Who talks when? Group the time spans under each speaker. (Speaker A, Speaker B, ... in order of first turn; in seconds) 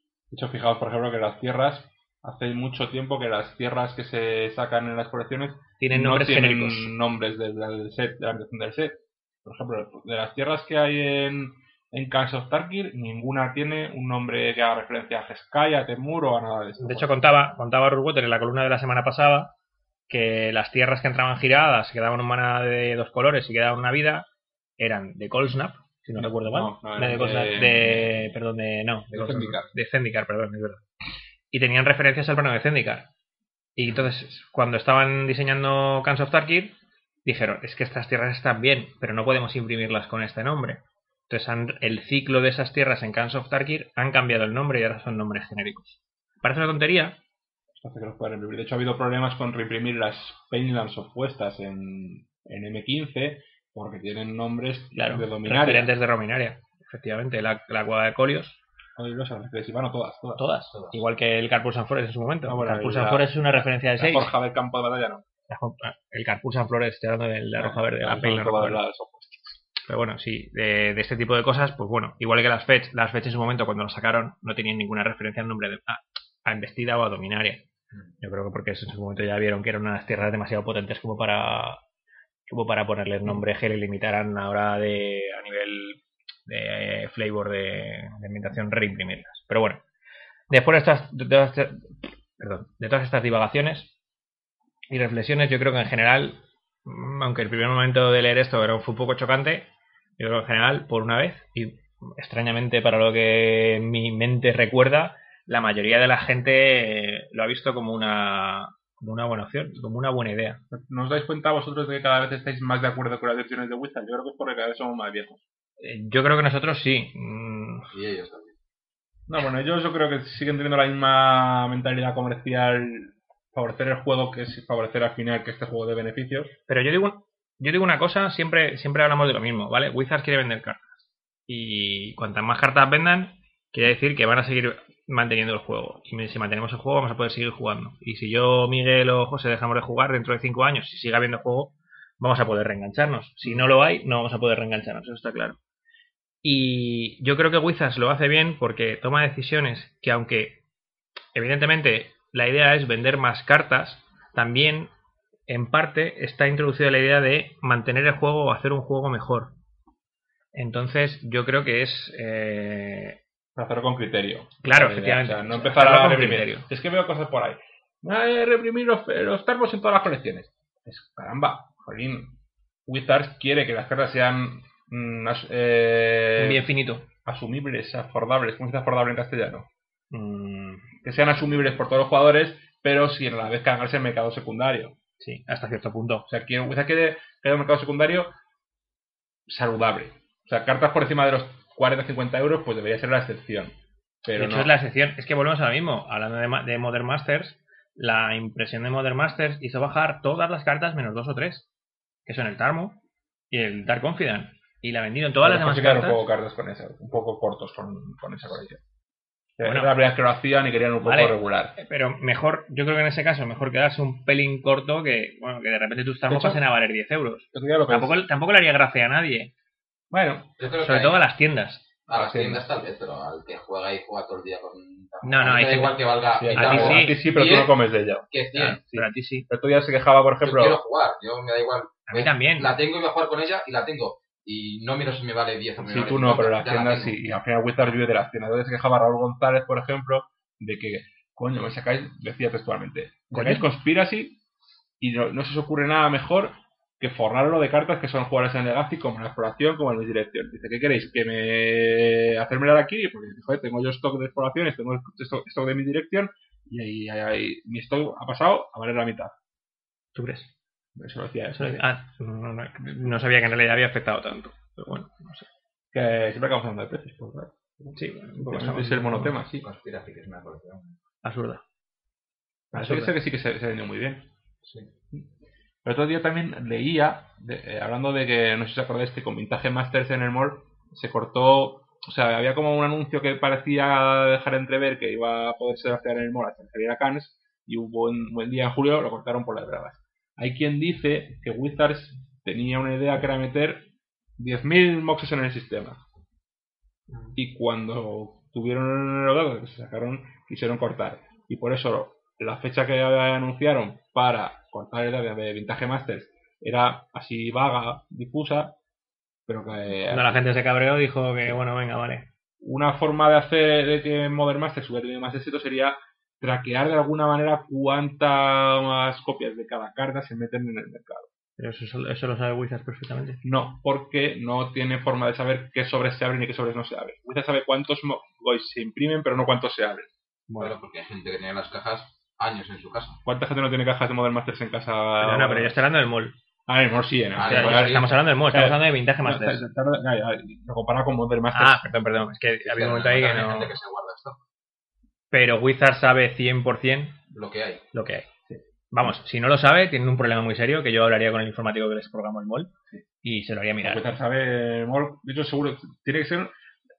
Speaker A: 0.3-17.2, 26.1-28.4, 29.1-29.7, 47.8-55.9, 59.0-60.4, 62.5-65.3, 67.6-69.6, 110.7-115.4, 119.3-126.5, 163.6-176.7, 177.2-179.7, 181.0-185.0, 186.3-188.3, 189.5-194.7, 205.4-208.8, 209.6-211.7, 216.3-216.6, 217.5-218.2, 220.1-220.5, 222.1-222.7, 226.4-228.3, 228.8-230.8, 235.8-244.4, 245.0-259.3, 260.9-261.9, 265.9-269.7, 272.7-274.3, 275.8-296.0, 297.4-308.8, 309.5-310.4, 312.6-321.3, 323.4-330.1, 333.2-335.9, 336.7-341.9, 353.8-356.5
Speaker B: 5.8-6.9, 16.8-19.5, 20.1-24.3, 24.8-30.8, 31.5-33.1, 33.8-47.2, 54.9-58.6, 60.4-64.3, 65.5-68.8, 69.9-77.7, 78.2-81.8, 82.5-89.8, 90.5-93.9, 94.9-110.6, 115.8-117.9, 126.7-130.9, 131.5-145.6, 146.4-150.6, 151.3-154.9, 155.5-159.6, 160.5-163.2, 164.6-166.7, 176.4-177.1, 180.1-180.9, 185.2-186.3, 194.3-201.7, 202.2-206.2, 209.6-209.9, 211.0-219.5, 220.7-221.9, 225.2-227.2, 228.5-229.5, 232.1-232.7, 243.3-243.7, 260.1-260.5, 261.6-265.5, 267.9-269.4, 271.2-271.6, 272.7-273.1, 310.1-312.3, 321.6-323.4, 330.5-330.7, 335.2-336.4, 337.4-339.6, 341.5-343.7, 345.3-347.2, 347.9-348.3, 348.9-352.7, 353.2-354.1
Speaker C: 60.7-61.0, 117.9-118.6, 220.6-221.2, 222.1-228.8, 230.4-237.2, 269.5-271.0, 274.6-274.9, 330.6-333.2, 337.4-338.2, 342.6-344.4, 347.3-347.9